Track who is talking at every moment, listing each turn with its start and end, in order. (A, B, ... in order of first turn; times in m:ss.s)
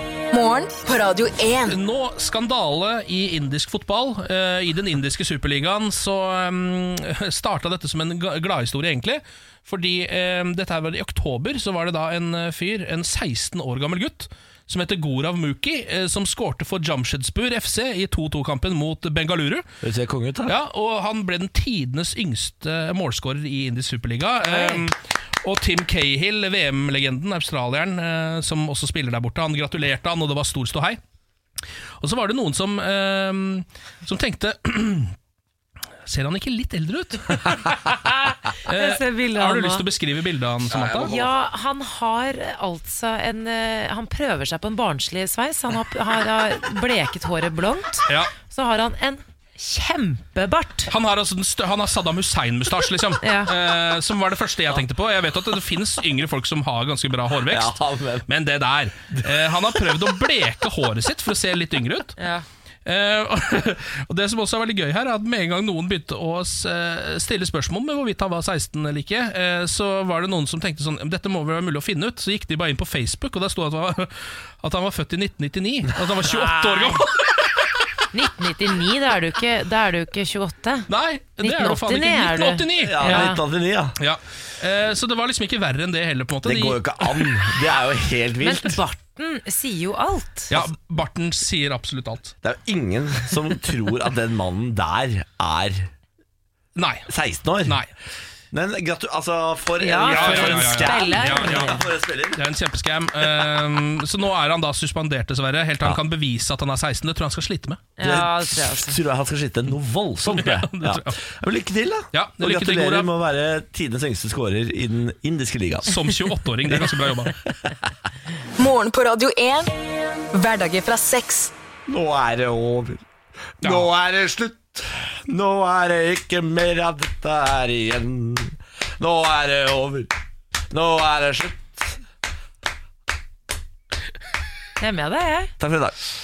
0:00.3-0:01.8 A
0:01.7-0:19.7 B
0:19.8-0:20.6 C
0:20.5-0:31.0 B
0:24.5-0:24.8 D
0:32.0-0:35.1 B
0:36.1-0:37.8 B
0:37.9-0:39.8 D
0:38.6-0:41.1 B
0:40.7-0:41.4 C
0:41.0-0:50.9 D
0:48.1-0:48.3 B
0:50.9-1:02.2 B
0:53.2-0:53.5 D
0:57.4-0:58.3 C
1:02.2-1:02.4 D
1:02.8-1:17.3 B
1:16.2-1:17.0 D
1:18.1-1:23.4 D
1:20.9-1:23.3 B
1:22.8-1:24.0 C
1:24.0-1:27.3 B
1:26.4-1:28.8 C
1:28.4-1:30.5 D
1:30.5-1:32.4 B
1:32.4-1:35.9 C
1:36.8-1:37.1 B
1:37.1-1:37.8 C
1:37.6-1:37.9 B
1:38.5-1:42.4 C
1:39.8-1:41.8 D
1:40.1-1:41.8 B
1:42.3-1:47.9 B
1:48.0-1:49.0 D
1:48.0-1:56.0 C
1:50.3-1:51.2 B
1:52.1-1:53.1 B
1:55.8-1:57.3 B
1:56.7-1:56.9 C
1:58.6-1:59.7 A
2:00.3-2:01.5 A
2:01.9-2:03.0 C
2:03.6-2:10.1 C
2:03.6-2:03.9 B
2:10.7-2:12.0 C
2:14.8-2:15.5 D
2:15.6-2:16.0 C